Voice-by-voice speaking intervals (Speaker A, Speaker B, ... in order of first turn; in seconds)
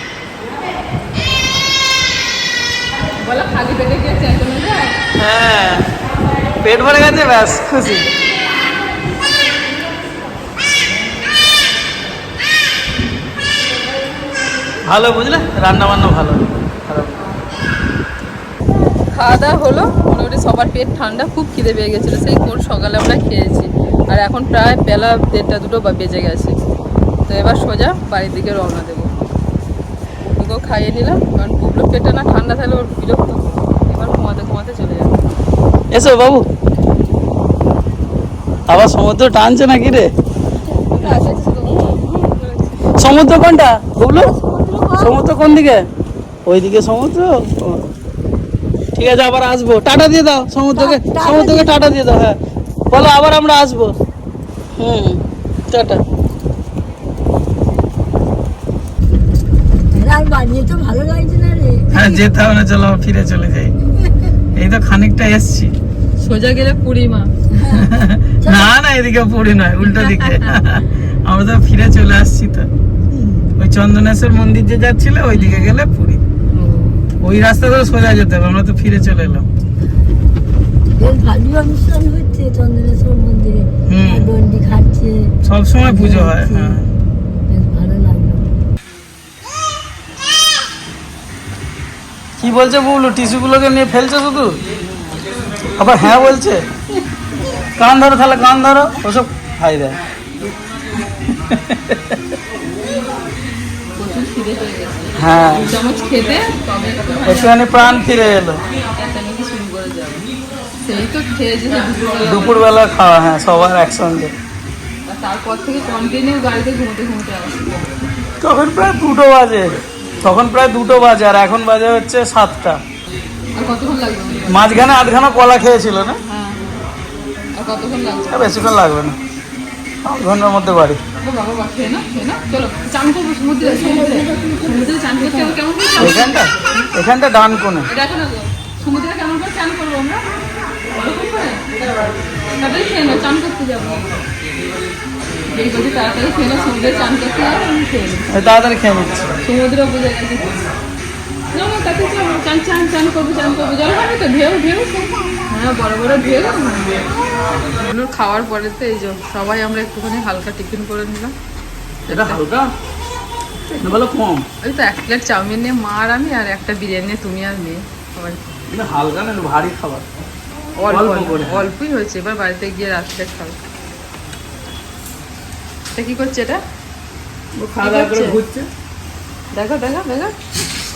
Speaker A: 3.2-5.0, 19.1-26.6, 27.3-29.1, 30.3-35.2, 40.9-42.9, 66.2-67.3, 70.0-70.4, 104.0-107.9, 109.0-110.3, 110.8-112.7, 115.1-117.7, 123.6-124.5, 126.2-126.8, 127.6-128.6, 131.2-136.4, 137.9-140.2, 140.9-141.6, 142.6-144.1, 145.5-148.3, 149.4-150.6, 151.5-157.1, 157.6-161.3, 162.1-162.4, 164.6-168.6, 170.8-173.6, 176.0-176.6, 177.8-178.4, 179.5-180.3
Speaker B: 5.2-5.9, 6.6-8.1, 14.8-17.2, 35.9-36.4, 38.7-40.1, 43.0-44.3, 45.0-45.9, 46.5-47.9, 49.0-52.4, 52.9-53.9, 54.8-56.0, 61.9-63.7, 64.6-65.7, 67.7-72.7, 73.6-76.2, 77.2-79.5, 83.9-84.3, 85.5-86.9, 92.4-94.6, 95.8-96.6, 97.8-100.0, 101.3-102.3, 105.2-105.7, 107.3-108.6, 112.2-114.3, 118.4-122.8, 124.5-126.2, 128.3-129.2, 130.0-131.0, 136.0-137.9, 148.3-149.3, 162.1-162.7, 163.8-164.5, 168.7-170.1, 170.9-171.6, 177.6-178.7
Speaker C: 40.6-42.1, 44.1-45.5, 50.7-51.8, 59.9-61.9, 67.5-68.7, 73.1-73.5, 81.0-86.8, 87.5-88.6, 133.6-136.3